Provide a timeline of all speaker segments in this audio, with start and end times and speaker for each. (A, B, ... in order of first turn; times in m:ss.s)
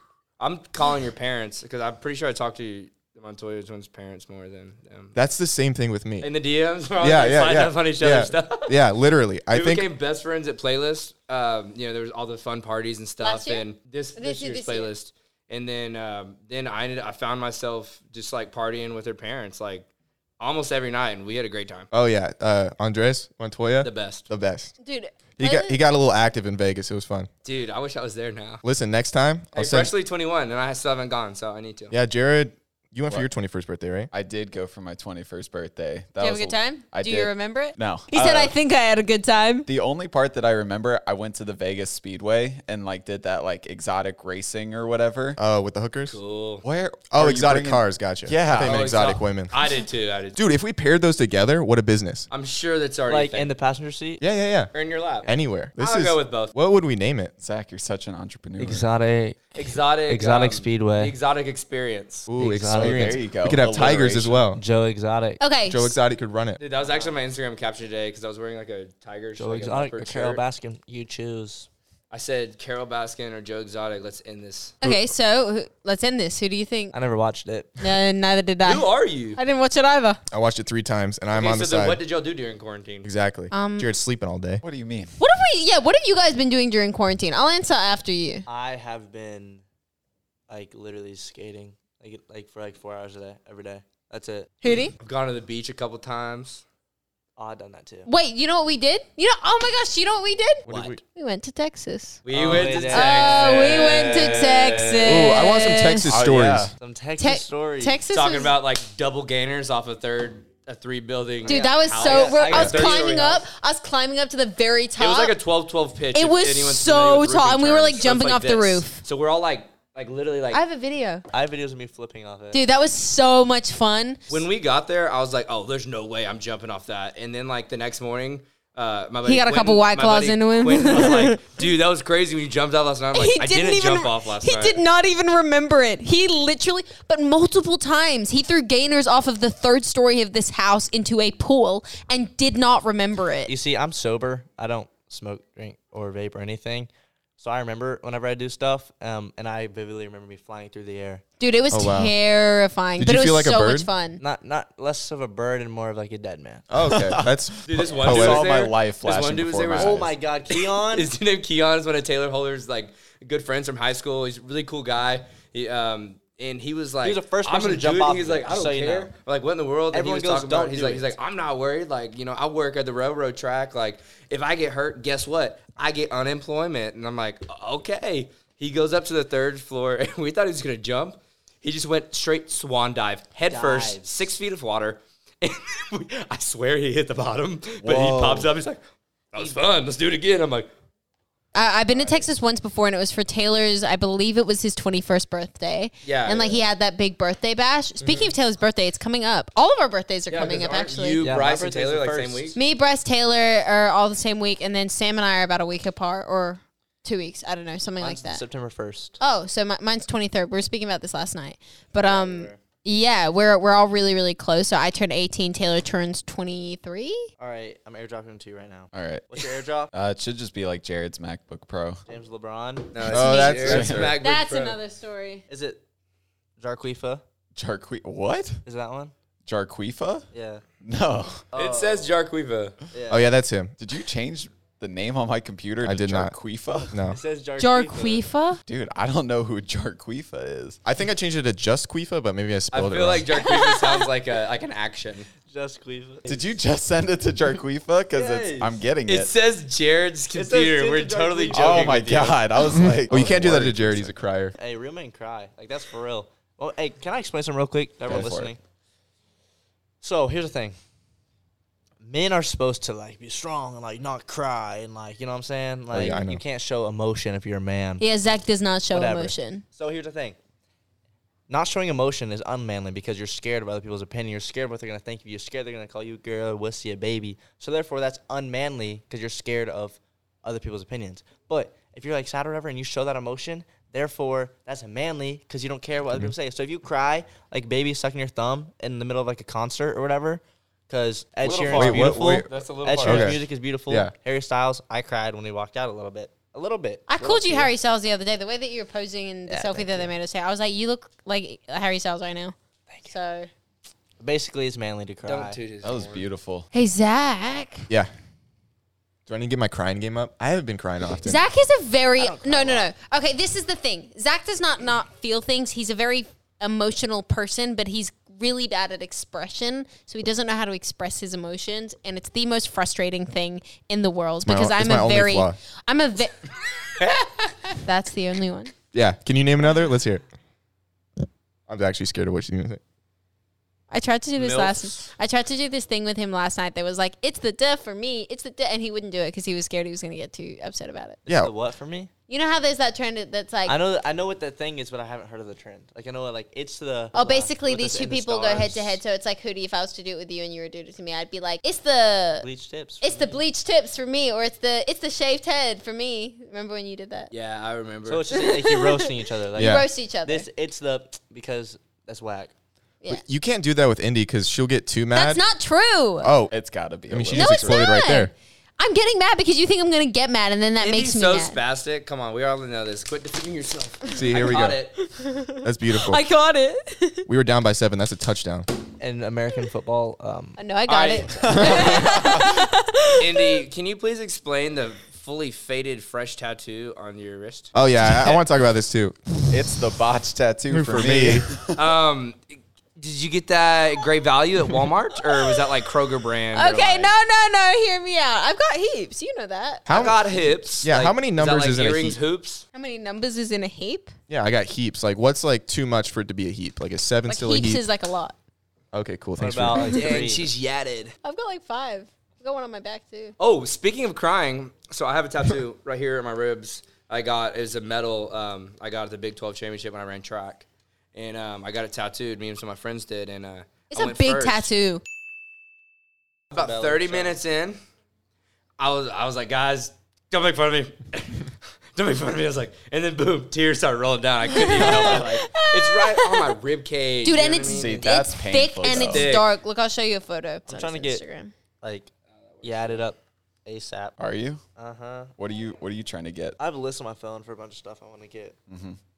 0:00.4-0:05.1 A
0:05.1-0:06.3 B
0:06.2-0:08.8 A
0:07.0-0:09.9 B
0:09.5-0:19.9 A
0:13.2-0:13.6 C
0:14.2-0:14.9 C
0:20.4-0:21.9 A
0:21.9-0:24.7 B
0:23.8-0:24.3 A
0:24.8-0:25.8 C
0:25.4-0:27.3 B
0:27.4-0:28.6 A
0:28.6-0:29.9 B
0:29.5-0:31.9 A
0:31.9-0:34.1 B
0:34.1-0:38.5 D
0:36.2-0:39.7 C
0:39.7-0:45.4 D
0:45.4-0:46.2 B
0:46.1-0:46.6 A
0:46.6-0:49.0 D
0:47.1-0:49.5 B
0:48.5-0:50.4 A
0:50.4-0:52.3 B
0:52.3-0:53.5 A
0:53.1-0:54.2 E
0:54.2-0:54.7 B
0:54.7-0:56.5 A
0:55.2-0:57.3 B
0:57.4-0:58.9 D
0:58.6-1:01.1 E
0:59.5-1:02.3 A
1:02.3-1:04.6 B
1:02.4-1:03.2 E
1:02.8-1:04.4 D
1:04.5-1:05.4 E
1:05.4-1:06.0 C
1:05.7-1:06.6 B
1:06.6-1:10.4 A
1:09.4-1:11.7 E
1:12.1-1:14.8 A
1:14.8-1:16.9 C
1:16.9-1:17.8 E
1:17.8-1:20.2 C
1:18.6-1:19.4 A
1:20.3-1:22.0 B
1:21.3-1:23.1 A
1:23.0-1:24.6 B
1:23.5-1:23.9 C
1:24.6-1:25.1 D
1:25.2-1:28.4 C
1:28.5-1:29.6 E
1:30.5-1:34.5 E
1:34.6-1:34.9 C
1:35.0-1:36.6 A
1:37.4-1:38.1 E
1:38.0-1:42.2 C
1:40.7-1:41.0 B
1:42.2-1:45.4 A
1:42.3-1:44.4 E
1:42.9-1:46.1 C
1:45.0-1:46.7 B
1:46.0-1:46.7 D
1:46.8-1:48.0 E
1:47.2-1:48.5 C
1:48.1-1:53.4 A
1:51.4-1:53.1 E
1:51.4-1:55.4 C
1:55.0-2:00.6 A
1:56.1-1:59.0 C
2:00.5-2:01.2 C
2:01.3-2:02.6 E
2:02.5-2:04.4 C
2:04.3-2:14.8 A
2:09.2-2:11.6 C
2:13.1-2:23.5 C
2:23.4-2:31.2 E
2:31.4-2:34.2 C
2:31.7-2:32.1 B
2:33.0-2:33.9 B
2:34.2-2:36.6 E
2:36.7-2:38.5 B
2:36.9-2:40.1 D
2:37.6-3:08.8 A
2:39.8-2:41.1 E
2:47.0-2:49.1 E
2:49.9-2:51.1 E
3:03.5-3:04.1 E
3:07.8-3:08.5 D
3:09.3-3:10.7 A
3:09.4-3:09.6 E
3:11.5-3:21.2 C
3:16.0-3:16.6 A
3:18.0-3:18.3 A
3:20.3-3:22.6 A
3:21.2-3:22.6 E
3:22.5-3:28.4 C
3:28.0-3:29.2 E
3:29.2-3:37.3 C
3:32.0-3:32.6 E
3:37.4-3:39.9 E
3:38.9-3:42.0 D
3:42.1-3:43.0 E
3:42.9-3:44.8 A
3:43.0-3:44.1 B
3:43.0-3:45.4 C
3:43.6-3:44.1 D
3:45.5-3:45.8 E
3:46.6-3:47.2 E
3:47.5-3:48.6 D
3:48.6-3:49.1 E
3:49.4-3:50.3 D
3:50.3-3:50.6 E
3:50.8-3:51.4 D
3:51.5-3:52.1 E
3:51.5-3:52.8 A
3:52.9-3:53.3 E
3:53.1-3:53.7 B
3:53.8-3:57.0 D
3:55.8-3:56.3 B
3:56.8-3:58.2 E
3:56.9-3:57.2 B
3:57.6-3:58.6 C
3:58.6-4:00.8 D
4:00.8-4:03.3 B
4:02.7-4:05.3 A
4:03.4-4:04.0 C
4:05.4-4:06.3 E
4:06.2-4:09.3 D
4:08.1-4:08.7 E
4:09.0-4:12.4 A
4:10.3-4:12.3 E
4:11.5-4:14.1 D
4:12.8-4:14.5 B
4:14.6-4:18.6 E
4:18.1-4:18.5 D
4:20.0-4:20.8 E
4:22.0-4:28.0 E
4:25.9-4:26.4 B
4:28.0-4:29.6 C
4:28.9-4:30.4 E
4:31.5-4:57.7 E
4:51.4-4:53.4 A
4:51.7-4:52.5 B
4:53.0-4:54.1 B
4:57.1-5:02.5 C
4:59.5-5:00.1 E
5:03.1-5:03.5 C
5:04.2-5:05.6 E
5:05.2-5:06.2 A
5:05.8-5:06.7 D
5:06.7-5:07.9 C
5:09.3-5:11.4 B
5:11.2-5:26.5 C
5:12.2-5:12.9 E
5:24.4-5:25.6 B
5:27.0-5:27.5 A
5:27.8-5:28.7 C
5:28.9-5:30.2 B
5:31.7-5:32.8 B
5:33.9-5:41.2 C
5:34.4-5:35.1 A
5:41.2-5:42.1 E
5:41.3-5:41.5 B
5:42.3-5:43.8 C
5:43.7-5:49.0 E
5:47.1-5:52.5 C
5:52.4-5:53.4 E
5:53.0-5:57.3 C
5:57.3-5:58.3 A
5:58.0-6:02.5 E
5:58.3-6:00.5 C
5:59.6-5:59.8 B
6:03.1-6:05.4 B
6:05.1-6:06.3 C
6:06.2-6:06.5 B
6:06.5-6:07.9 D
6:07.1-6:08.3 B
6:07.3-6:11.6 C
6:10.8-6:14.9 A
6:14.1-6:14.8 B
6:15.0-6:17.2 C
6:15.6-6:16.2 B
6:17.3-6:18.7 B
6:19.0-6:20.6 E
6:20.6-6:23.6 C
6:20.9-6:22.2 A
6:21.5-6:22.5 D
6:23.2-6:27.7 A
6:27.7-6:29.5 B
6:29.5-6:31.8 D
6:30.7-6:31.5 B
6:31.8-6:37.1 A
6:35.3-6:35.7 C
6:36.5-6:39.9 C
6:39.9-6:40.2 B
6:39.9-6:42.6 A
6:40.8-6:42.2 B
6:42.7-6:44.1 C
6:44.3-6:47.8 B
6:47.3-6:48.4 C
6:48.9-6:49.9 B
6:49.4-6:50.5 E
6:49.9-6:51.1 A
6:51.2-6:53.4 C
6:53.4-7:04.7 A
7:03.9-7:05.0 C
7:06.5-7:07.4 E
7:06.5-7:07.8 A
7:08.8-7:18.0 A
7:14.4-7:16.5 C
7:17.2-7:21.5 C
7:17.7-7:19.4 D
7:18.8-7:19.5 A
7:20.7-7:21.2 E
7:21.8-7:22.1 E
7:22.3-7:23.0 A
7:22.6-7:24.2 E
7:24.2-7:24.6 D
7:24.8-7:25.3 E
7:25.4-7:26.6 D
7:26.6-7:28.6 E
7:28.7-7:29.0 D